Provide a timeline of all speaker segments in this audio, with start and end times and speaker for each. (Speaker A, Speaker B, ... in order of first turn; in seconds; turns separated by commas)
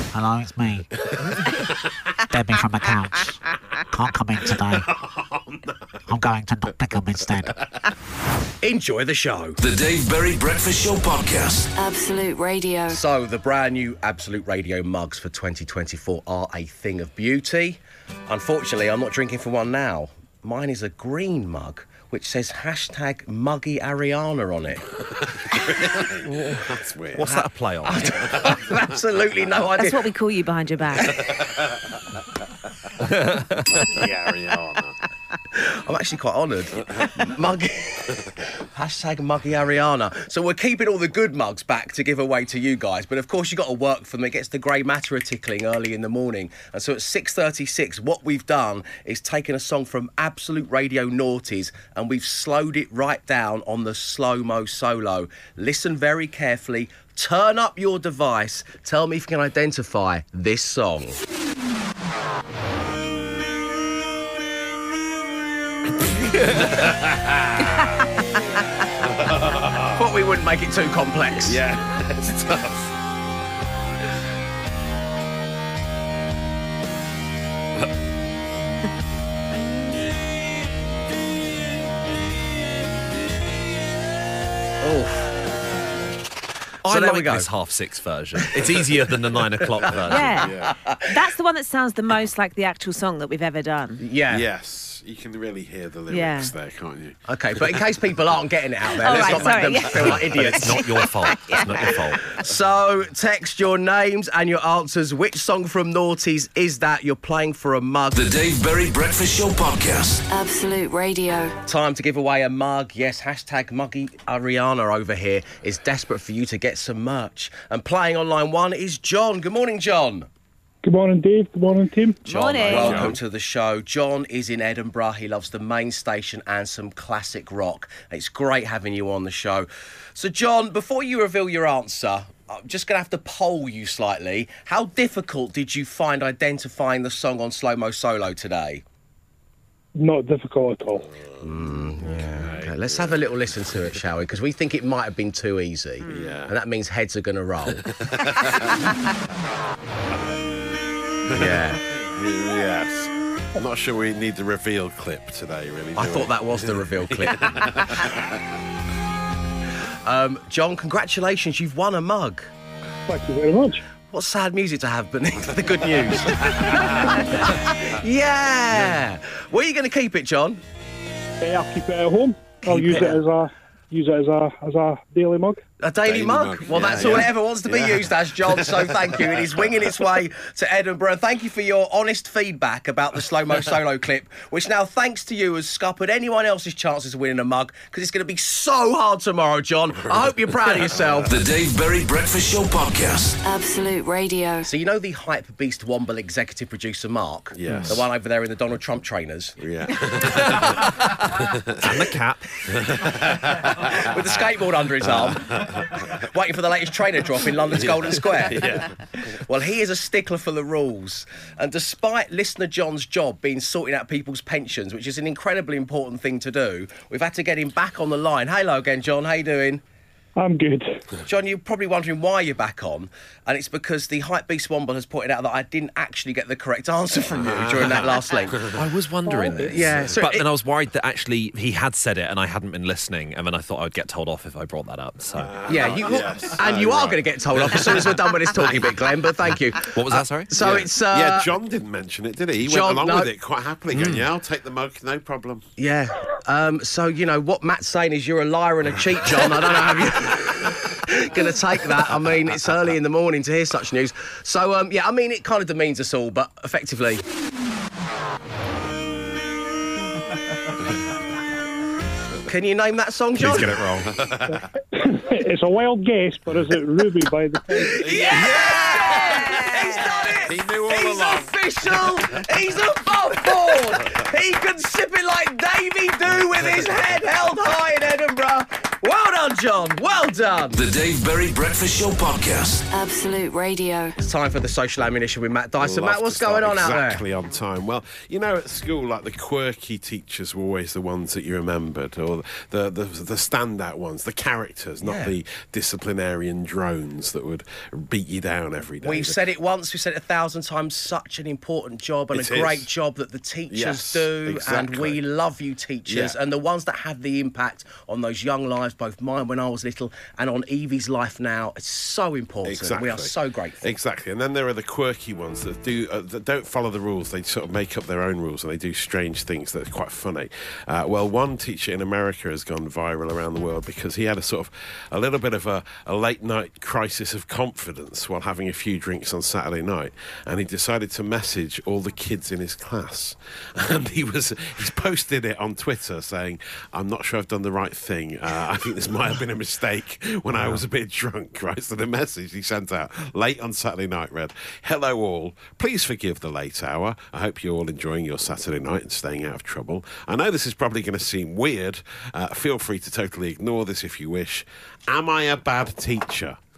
Speaker A: 0.1-0.9, Speaker B: 1.1-1.9, Speaker A: 2.3-3.4, Speaker A: 3.9-4.9, Speaker B: 4.6-6.0, Speaker A: 6.1-7.6, Speaker B: 7.4-7.8, Speaker C: 8.6-9.6, Speaker D: 9.6-11.7, Speaker E: 11.7-13.0, Speaker C: 12.9-24.8, Speaker B: 25.0-27.4, Speaker F: 27.1-28.3, Speaker C: 27.2-30.0, Speaker B: 28.0-29.0, Speaker G: 29.7-31.2, Speaker B: 31.0-32.2, Speaker F: 33.0-33.7, Speaker B: 33.7-35.0, Speaker C: 35.5-61.2, Speaker B: 36.8-37.2, Speaker B: 66.0-67.9, Speaker B: 68.9-70.0, Speaker C: 70.0-71.6, Speaker B: 71.4-73.0, Speaker C: 84.8-85.3, Speaker C: 86.8-87.5, Speaker F: 86.9-90.5, Speaker C: 88.4-88.8, Speaker B: 89.8-90.7, Speaker C: 89.8-91.2, Speaker G: 90.1-94.0, Speaker C: 94.0-94.4, Speaker B: 94.3-97.9, Speaker G: 96.1-96.5, Speaker C: 97.3-100.9, Speaker G: 99.0-102.0, Speaker B: 99.1-100.5, Speaker F: 100.1-102.2, Speaker C: 102.2-108.2, Speaker D: 108.1-110.2, Speaker E: 110.3-111.5, Speaker C: 111.6-120.3, Speaker H: 120.8-122.2, Speaker G: 122.2-123.1, Speaker C: 122.2-138.8, Speaker B: 122.7-123.2, Speaker F: 122.8-123.1, Speaker H: 139.9-141.1, Speaker B: 141.1-143.9, Speaker C: 141.4-147.8, Speaker B: 146.0-146.5, Speaker G: 146.1-146.4, Speaker B: 147.8-148.9, Speaker B: 151.3-158.4, Speaker C: 151.3-151.8, Speaker C: 155.9-157.7, Speaker C: 160.0-162.5, Speaker H: 163.1-163.8, Speaker C: 164.1-170.6, Speaker B: 166.2-167.3, Speaker H: 171.4-175.6, Speaker C: 172.6-173.2, Speaker C: 175.8-191.3, Speaker B: 176.0-179.8, Speaker B: 189.9-191.3, Speaker D: 191.2-193.4, Speaker E: 193.4-194.7, Speaker C: 194.6-199.6, Speaker B: 197.5-198.0, Speaker F: 197.7-198.0, Speaker B: 199.6-202.0, Speaker F: 201.8-202.7, Speaker B: 202.7-204.3, Speaker C: 203.9-208.7, Speaker B: 205.0-206.0, Speaker B: 207.7-209.0, Speaker C: 209.4-219.8, Speaker H: 220.4-221.0, Speaker C: 221.2-228.7, Speaker B: 227.3-228.8, Speaker F: 228.7-236.0, Speaker H: 229.3-229.6, Speaker C: 229.5-230.4, Speaker B: 229.8-230.1, Speaker B: 235.3-238.9, Speaker C: 235.7-241.5, Speaker F: 239.9-240.8, Speaker B: 240.5-245.7, Speaker C: 242.6-243.3, Speaker F: 243.9-244.3, Speaker C: 245.8-257.2, Speaker C: 262.5-263.8, Speaker B: 263.3-264.7, Speaker H: 264.9-268.0, Speaker C: 267.9-280.8, Speaker B: 267.9-272.4, Speaker G: 268.1-270.3, Speaker D: 280.7-282.8, Speaker E: 282.9-284.2, Speaker C: 284.2-287.2, Speaker B: 285.8-299.4, Speaker C: 295.0-295.3, Speaker C: 299.0-313.9, Speaker B: 302.3-302.9, Speaker B: 303.7-305.2, Speaker B: 306.1-306.4, Speaker B: 312.6-356.6